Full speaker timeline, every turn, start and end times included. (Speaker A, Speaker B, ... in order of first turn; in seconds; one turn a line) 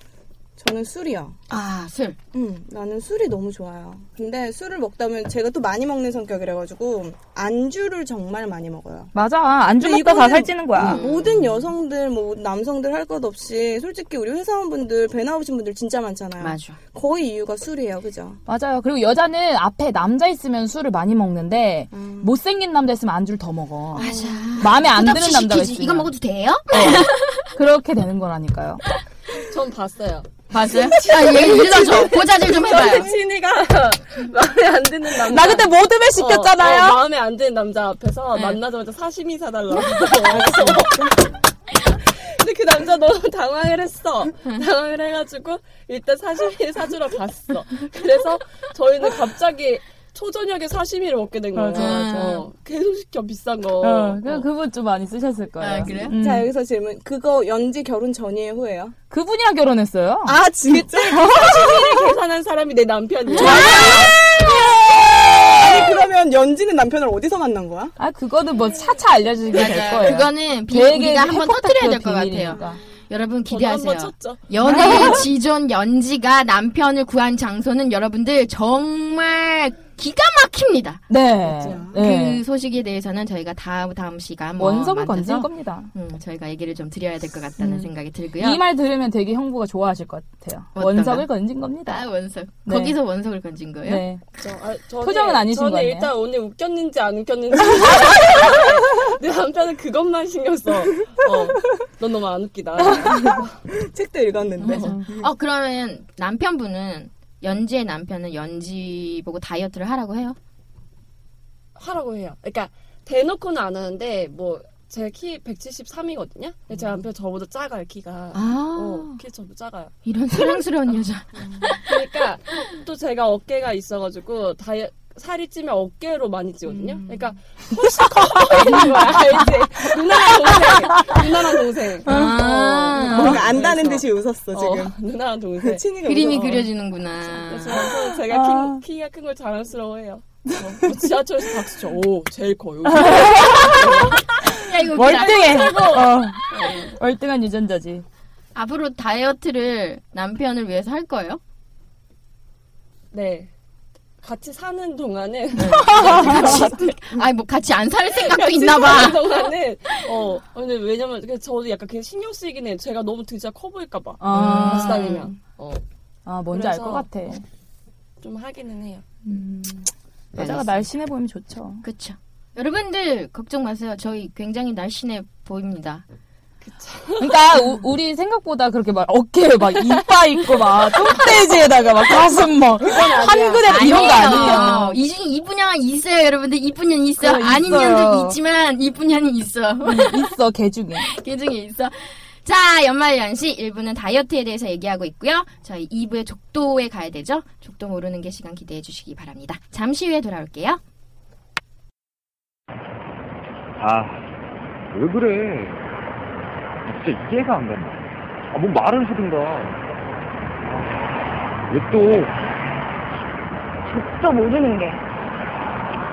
Speaker A: 0.6-1.4
Speaker B: 1.5-2.2
Speaker A: 2.3-9.1
Speaker C: 9.1-11.0
Speaker A: 9.8-18.4
Speaker B: 10.8-11.7
Speaker B: 16.4-16.8
Speaker C: 18.5-26.1
Speaker A: 21.9-22.3
Speaker A: 23.9-24.5
Speaker B: 24.0-27.5
Speaker C: 26.7-28.8
Speaker D: 29.4-41.1
Speaker B: 30.5-33.1
Speaker A: 30.7-31.6
Speaker A: 32.6-33.1
Speaker C: 35.1-37.0
Speaker A: 40.2-41.2
Speaker D: 41.9-54.5
Speaker C: 51.5-52.4
Speaker B: 51.8-52.5
Speaker C: 53.8-56.5
Speaker B: 55.6-56.1
Speaker A: 56.1-58.9
Speaker C: 59.1-61.8
Speaker A: 60.2-62.1
Speaker D: 61.0-64.2
Speaker B: 63.3-64.6
Speaker C: 63.3-64.2
Speaker A: 63.4-67.9
Speaker C: 68.0-72.8
Speaker B: 69.5-81.0
Speaker D: 73.5-75.1
Speaker C: 74.6-75.3
Speaker C: 81.1-82.4
Speaker A: 81.4-82.0
Speaker B: 81.9-88.6
Speaker C: 84.6-85.9
Speaker C: 87.6-92.0
Speaker B: 90.7-91.3
Speaker B: 91.8-94.0
Speaker C: 92.7-93.0
Speaker C: 93.8-94.2
Speaker D: 94.4-103.5
Speaker C: 95.0-96.1
Speaker A: 102.9-105.3
Speaker B: 104.6-110.3
Speaker D: 104.6-105.0
Speaker D: 111.7-119.9
Speaker B: 118.3-119.2
Speaker B: 120.0-121.9
Speaker A: 121.4-121.7
Speaker D: 121.8-136.6
Speaker A: 126.7-127.3
Speaker C: 127.8-129.5
Speaker C: 130.2-131.3
Speaker B: 132.0-133.4
Speaker A: 132.1-132.4
Speaker A: 132.9-134.9
Speaker C: 133.1-133.4
Speaker A: 135.6-136.7
Speaker B: 136.0-137.8
Speaker D: 137.4-144.4
Speaker C: 137.9-138.8
Speaker C: 140.5-141.1
Speaker C: 142.8-148.0
Speaker B: 144.5-145.8
Speaker D: 145.1-147.0
Speaker B: 148.5-151.4
Speaker D: 153.1-153.5
Speaker D: 154.2-156.8
Speaker B: 155.6-160.1
Speaker C: 155.7-156.7
Speaker D: 158.1-165.8
Speaker C: 164.2-165.2
Speaker B: 164.3-165.3
Speaker C: 166.2-167.4
Speaker D: 166.5-167.1
Speaker D: 168.2-169.0
Speaker C: 169.2-171.8
Speaker B: 170.3-170.8
Speaker B: 171.8-176.0
Speaker D: 176.6-177.4
Speaker C: 177.2-185.0
Speaker D: 180.9-181.3
Speaker A: 182.9-183.7
Speaker D: 182.9-184.8
Speaker B: 183.6-190.3
Speaker C: 187.2-188.4
Speaker C: 189.8-191.1
Speaker B: 191.0-200.8
Speaker E: 203.8-204.3
Speaker E: 204.9-205.8
Speaker E: 206.8-209.8
Speaker E: 210.6-211.0
Speaker E: 211.7-212.3
Speaker E: 213.9-215.0